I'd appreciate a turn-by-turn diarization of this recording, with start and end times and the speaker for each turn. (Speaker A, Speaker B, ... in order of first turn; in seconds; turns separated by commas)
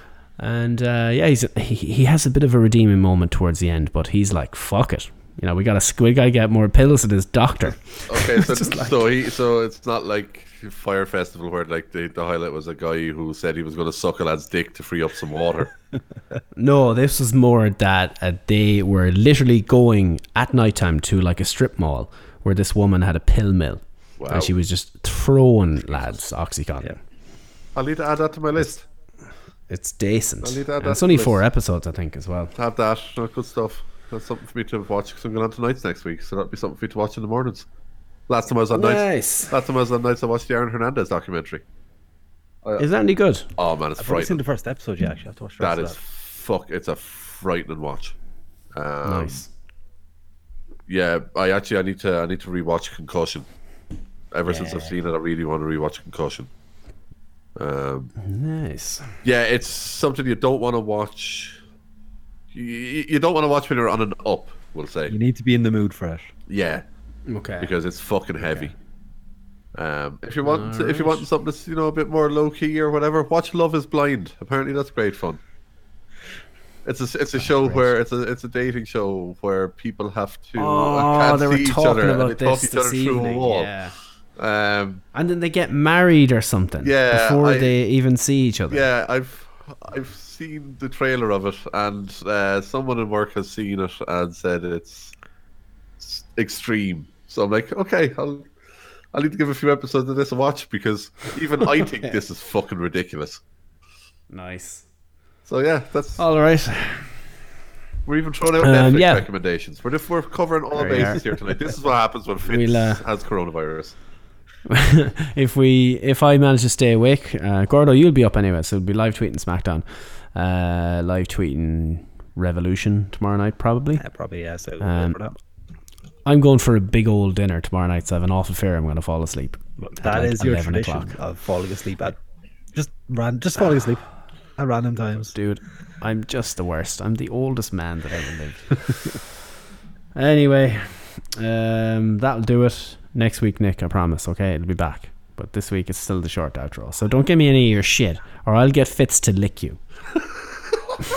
Speaker A: 0.4-9.0, Speaker B: 8.1-15.7, Speaker A: 16.6-26.9, Speaker B: 24.2-24.6, Speaker B: 27.7-28.8, Speaker A: 29.7-32.5, Speaker B: 30.4-31.4, Speaker B: 32.5-37.6, Speaker B: 38.3-41.6, Speaker A: 38.7-39.5, Speaker A: 42.8-43.5, Speaker B: 43.6-44.4, Speaker C: 44.0-46.0, Speaker B: 45.6-48.1, Speaker B: 48.7-49.4, Speaker A: 49.0-49.5, Speaker B: 50.9-53.5, Speaker B: 54.3-56.5, Speaker A: 54.5-54.9, Speaker B: 57.5-58.1, Speaker A: 58.2-59.1, Speaker B: 59.2-61.6, Speaker B: 62.5-65.2, Speaker C: 65.1-66.3, Speaker B: 66.5-66.8, Speaker A: 67.3-67.7, Speaker B: 67.6-68.7, Speaker B: 69.7-75.4, Speaker A: 70.4-71.2, Speaker B: 76.8-83.7, Speaker A: 77.5-77.9, Speaker A: 80.6-84.0, Speaker B: 84.4-85.0, Speaker A: 85.1-88.8, Speaker B: 86.8-87.7, Speaker B: 88.7-95.1, Speaker B: 96.0-98.5, Speaker B: 99.1-103.4, Speaker A: 104.3-104.8, Speaker B: 105.5-106.2, Speaker A: 106.2-107.1, Speaker B: 108.0-114.0, Speaker A: 108.6-109.3, Speaker A: 110.7-111.2, Speaker A: 112.5-113.0, Speaker A: 114.7-124.0, Speaker C: 124.0-125.3, Speaker A: 124.8-125.2, Speaker A: 126.2-131.2, Speaker C: 129.8-132.2, Speaker C: 132.7-134.1, Speaker C: 134.6-135.3, Speaker A: 135.2-139.2, Speaker A: 140.1-149.8